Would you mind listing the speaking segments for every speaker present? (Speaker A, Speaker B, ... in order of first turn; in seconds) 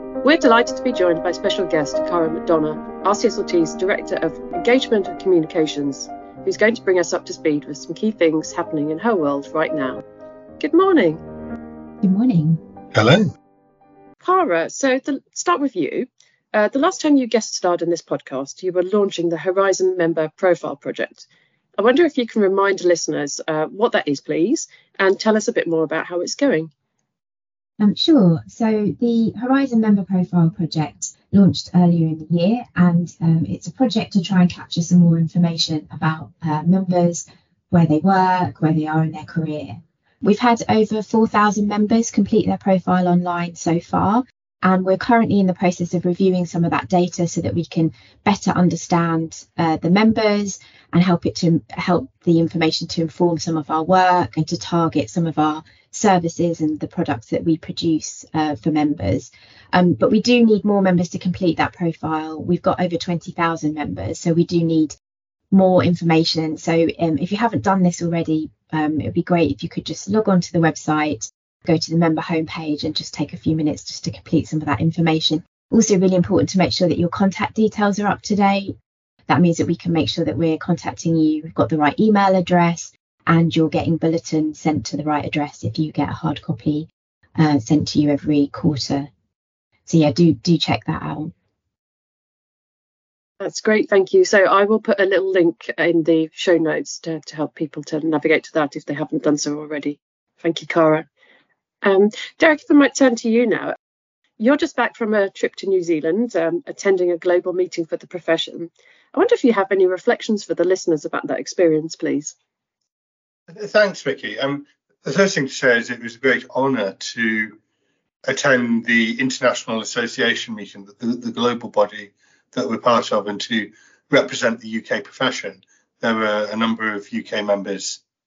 Speaker A: 0.2-10.0, 10.6-11.2, 14.2-21.2, 21.8-26.7, 93.4-101.1, 101.8-103.7, 104.4-112.3
Speaker B: 12.0-12.6, 27.8-64.9, 65.5-78.7, 79.3-89.1, 89.9-91.3
Speaker C: 12.9-13.3, 113.5-117.5, 118.3-128.0